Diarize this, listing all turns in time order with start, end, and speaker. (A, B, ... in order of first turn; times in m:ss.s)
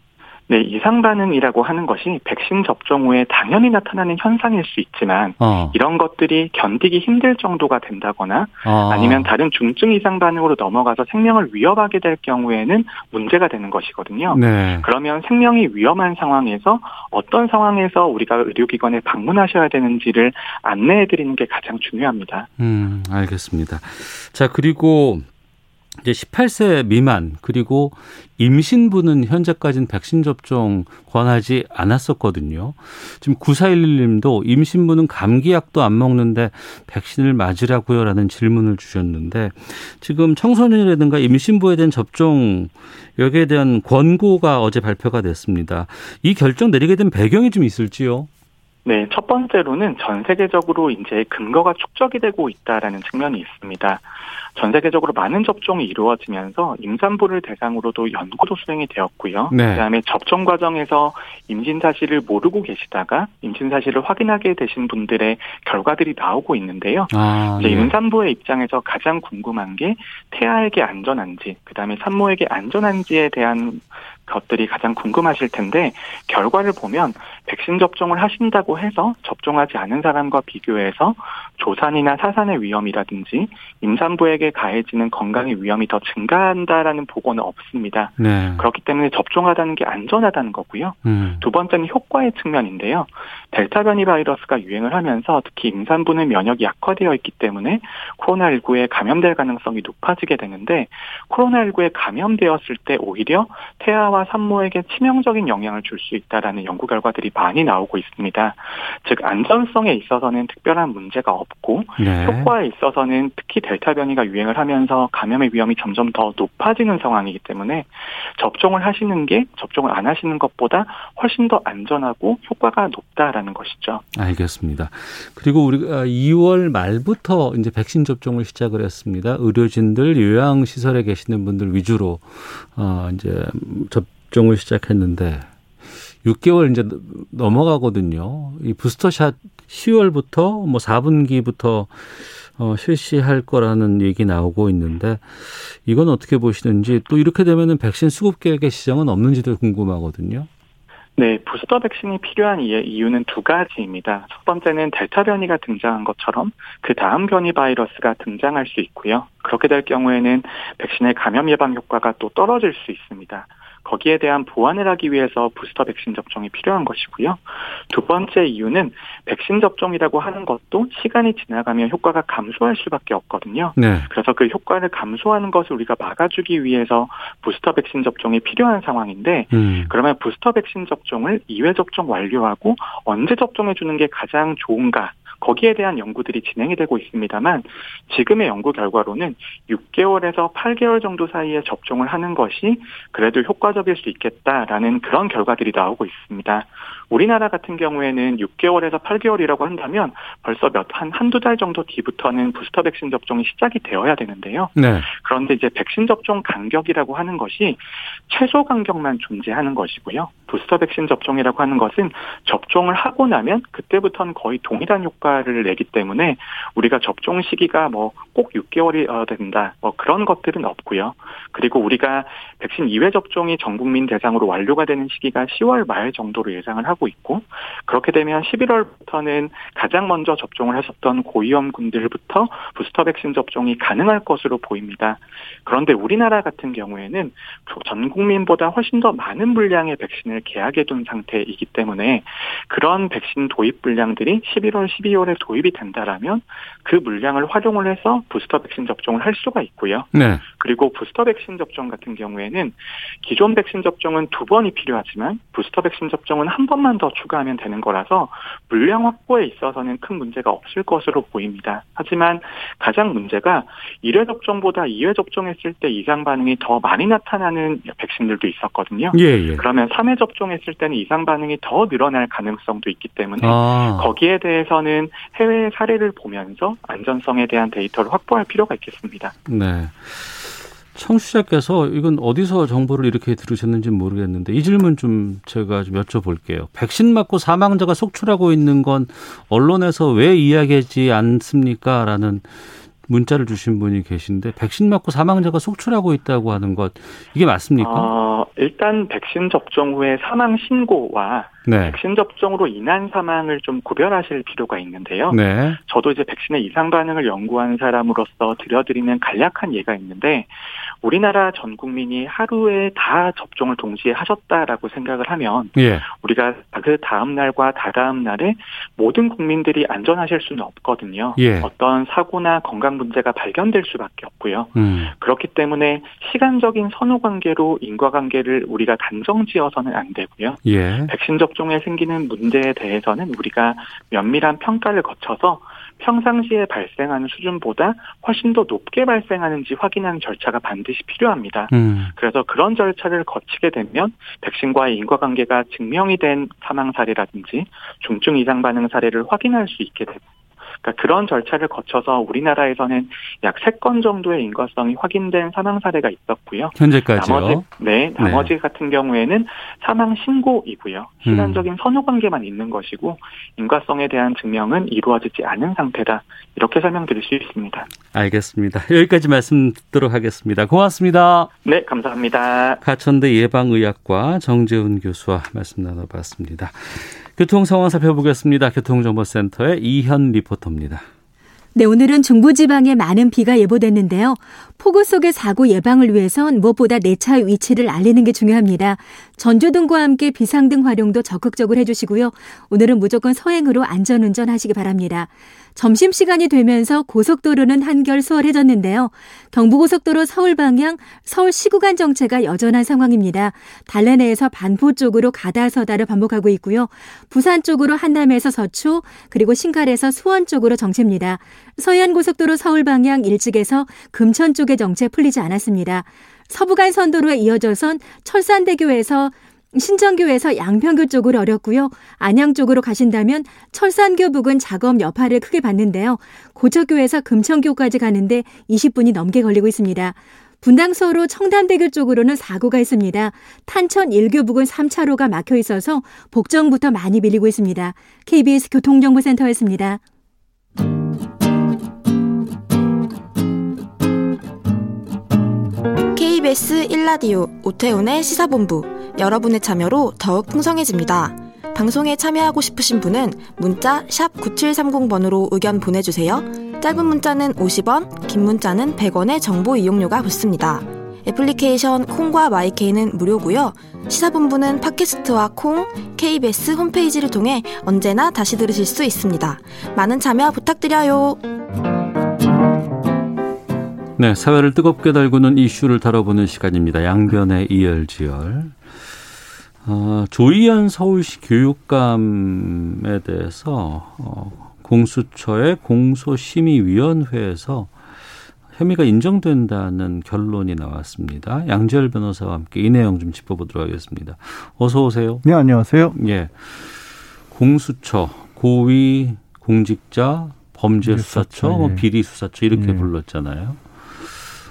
0:00.5-0:22.5 A
0:05.4-0:05.8 B
0:08.6-0:09.3 B
0:14.3-0:14.9 B
0:22.6-0:25.2 B
0:26.0-0:48.3 B
0:48.8-2:04.0 A
0:59.5-0:59.8 B
1:07.1-1:07.9 B
1:28.2-1:28.6 B
1:31.0-1:31.4 B
1:52.0-1:52.5 B
2:04.1-2:15.4 B
2:16.2-2:30.5 B
2:31.2-4:39.3 A
2:53.8-2:54.1 B
2:59.5-2:59.9 B
3:24.8-3:25.1 B
4:10.1-4:10.4 B
4:29.1-4:29.6 B
4:33.4-4:34.1 B
4:39.5-4:58.1 B
4:57.8-5:50.2 A
5:01.6-5:02.0 B
5:05.3-5:05.8 B
5:15.7-5:16.0 B
5:21.4-5:21.7 B
5:24.7-5:25.1 B
5:30.6-5:31.1 B
5:41.7-5:42.1 B
5:50.8-6:07.9 A
5:56.8-5:57.7 B
5:58.2-5:58.5 B
6:01.2-6:01.6 B
6:08.1-6:11.5 B
6:11.6-6:12.8 A
6:12.8-6:21.0 B
6:21.7-7:20.0 C
7:26.1-7:51.4 D
7:54.2-7:58.8 B
7:59.8-8:07.9 B
8:08.7-8:15.4 B
8:15.4-8:16.1 E
8:16.1-8:24.3 B
8:21.0-8:22.0 E
8:22.7-8:23.1 E